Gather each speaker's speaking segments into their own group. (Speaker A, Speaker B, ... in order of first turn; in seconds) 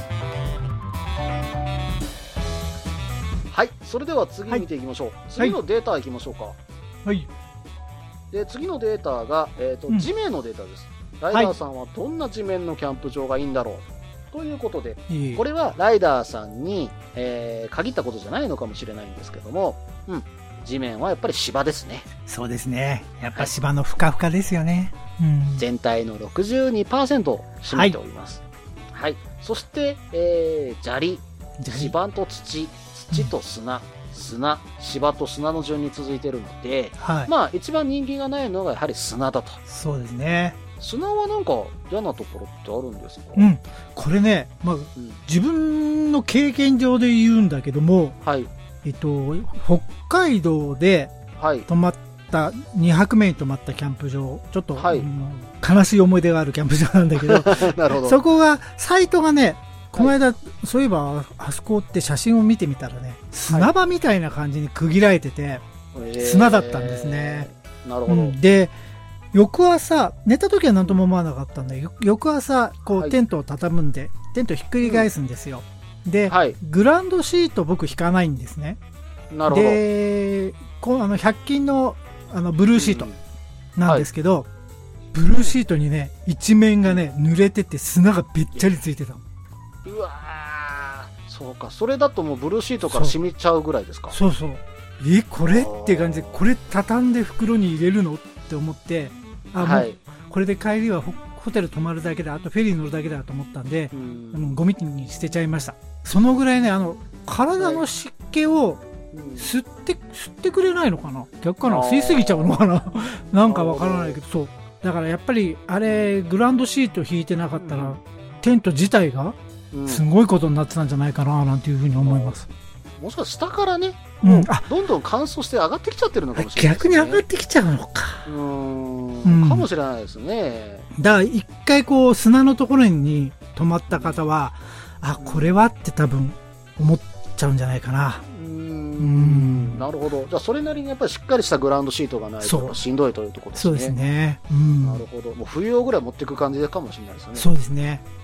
Speaker A: 3.5-6.6, 8.3-22.1, 25.6-28.4, 28.9-39.6, 40.8-43.5, 48.2-48.5, 51.4-51.6, 54.8-55.1, 57.3-58.2, 65.9-68.3, 74.8-75.1, 76.3-76.5, 79.3-79.8, 82.7-83.2, 86.8-87.1, 89.8-94.2, 95.5-96.4, 99.6-100.0, 103.9-104.6, 107.6-107.8, 109.1-109.5, 111.6-112.5, 113.4-114.2, 117.5-118.0, 119.7-120.0, 122.0-122.3, 123.0-127.2, 128.2-130.8, 133.9-134.2, 135.2-135.5, 138.3-143.9, 144.8-147.5
Speaker B: 15.1-15.4, 22.2-25.6, 27.7-27.9, 31.6-31.9, 37.0-37.3, 39.7-40.6, 43.4-48.1, 48.8-51.1, 51.7-65.6, 66.2-67.5, 68.1-68.7, 69.3-78.8, 79.5-83.1, 83.8-84.5, 85.1-89.2, 92.9-93.1, 94.1-108.8, 109.4-122.5, 124.2-124.6, 126.3-128.3, 129.2-129.7, 130.9-138.2, 139.0-139.9, 142.4-142.8, 143.5-145.1, 147.3-148.0